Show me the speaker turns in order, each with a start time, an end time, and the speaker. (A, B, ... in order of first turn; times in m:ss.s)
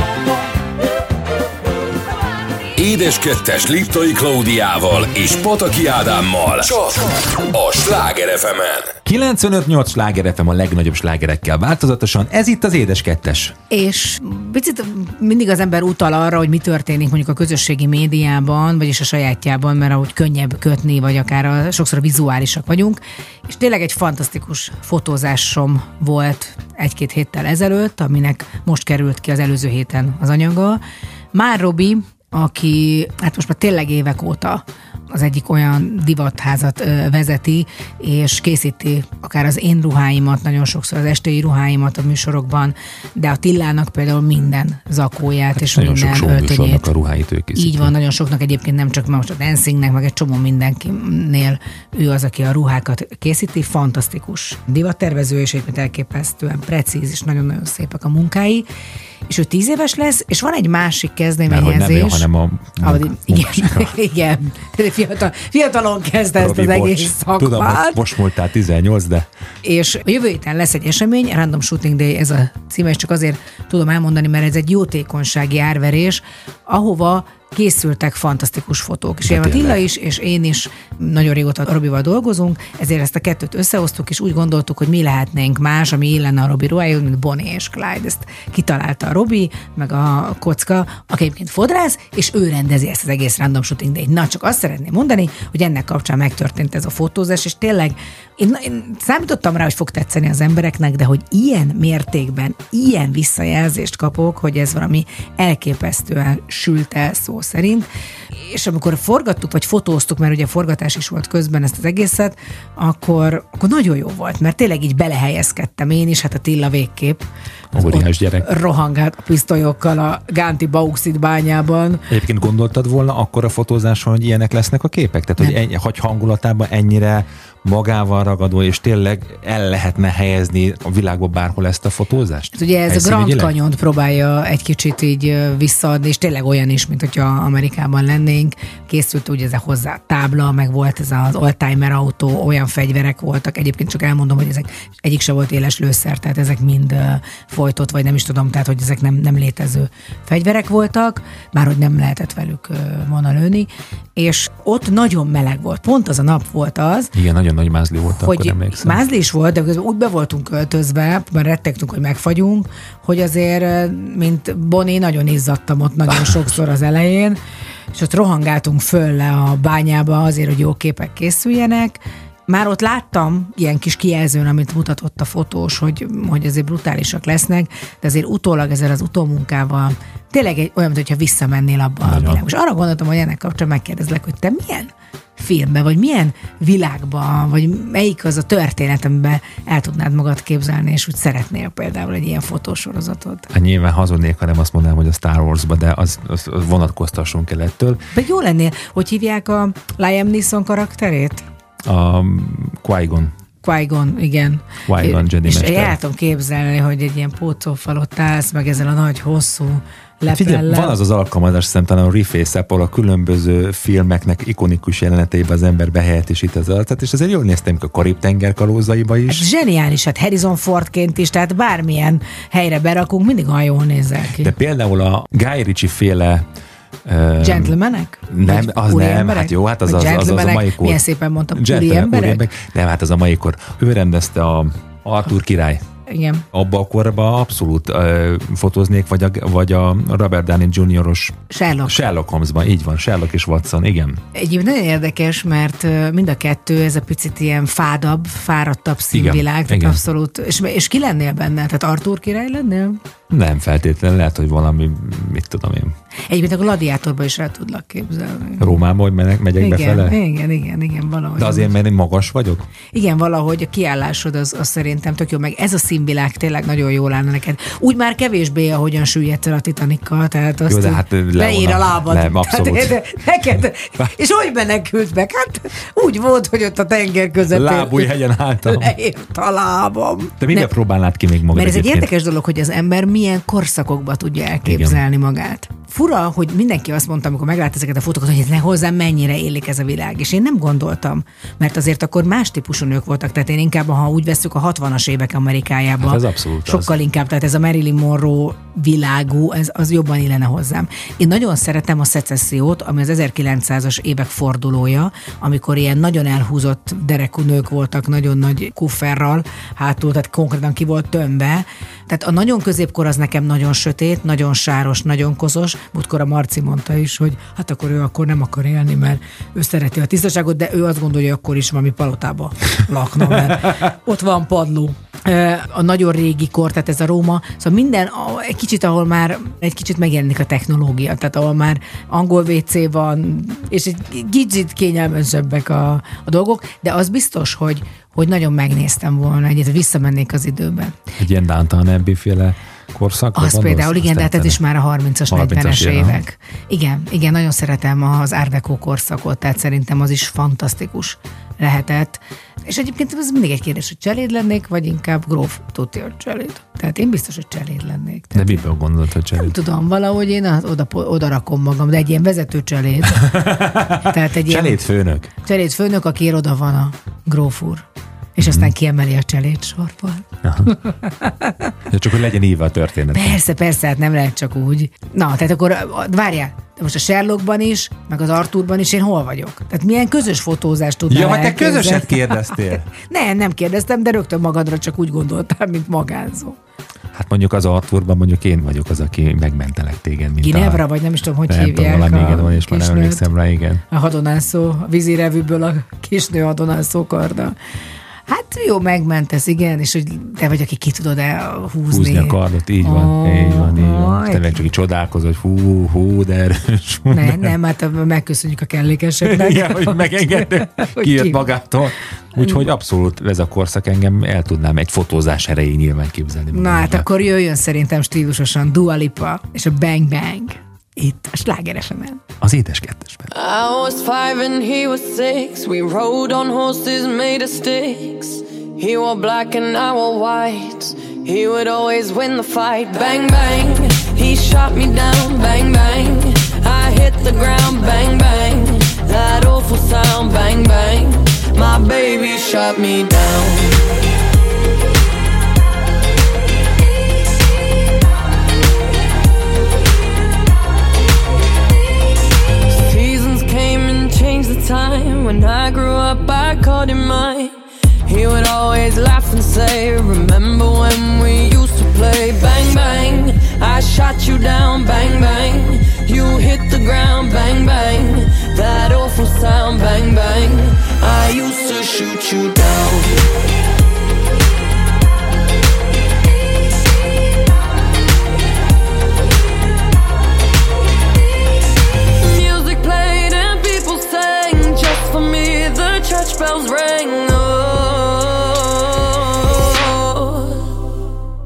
0:02.8-0:08.9 A
0:09.0-0:13.6 B
0:13.7-0:30.8 C
0:31.3-0:46.9 C
0:45.6-0:47.9 B
0:47.6-0:58.7 C
0:59.3-1:02.3 C
1:01.5-1:04.0 B
1:02.8-1:08.0 C
1:06.4-1:09.3 B
1:09.6-1:47.9 C
1:19.2-1:19.8 B
1:48.4-2:02.1 C
1:57.7-1:58.5 B
2:02.1-2:13.5 B
2:12.6-2:37.1 C
2:37.1-2:39.0 B
2:38.1-2:47.4 C
2:47.9-3:13.5 C
3:02.0-3:02.4 B
3:13.5-3:18.0 B
3:18.1-3:21.4 C
3:21.8-3:23.3 B
3:23.6-3:31.0 C
3:24.9-3:26.0 B
3:30.3-3:39.5 B
3:39.3-3:44.5 C
3:44.4-3:46.5 B
3:47.0-3:47.8 B
3:47.4-3:52.4 C
3:48.3-3:51.0 B
3:51.6-3:55.8 B
3:56.1-3:56.4 C
3:56.5-4:04.2 B
4:01.5-4:02.0 C
4:04.3-4:13.0 C
4:09.1-4:10.0 B
4:13.3-4:16.0 B
4:16.3-4:18.8 C
4:18.6-4:20.2 B
4:19.6-4:21.7 C
4:21.4-4:22.7 B
4:22.9-4:40.7 C
4:30.7-4:33.0 B
4:37.5-4:39.0 B
4:40.4-4:42.1 B
4:41.5-5:41.0 C
4:44.6-4:45.0 B
4:56.0-4:56.9 B
5:41.2-5:44.6 B
5:43.4-5:58.6 C
5:45.3-5:46.2 B
5:58.3-5:59.6 B
5:59.4-6:04.8 C
6:03.2-6:05.3 B
6:05.4-6:11.7 C
6:08.4-6:08.7 B
6:10.4-6:10.8 B
6:11.9-6:13.4 B
6:13.1-6:26.6 C
6:21.1-6:22.9 B
6:27.1-6:30.8 B
6:30.4-6:33.2 C
6:31.5-6:33.8 B
6:33.9-6:37.6 C
6:38.3-6:44.6 C
6:41.9-6:47.5 B
6:47.1-6:51.4 C
6:49.2-6:57.1 B
6:52.4-6:52.6 C
6:56.5-7:02.2 C
7:02.4-7:03.3 B
7:03.3-7:23.9 D
7:32.7-7:53.2 D
8:02.2-8:10.7 D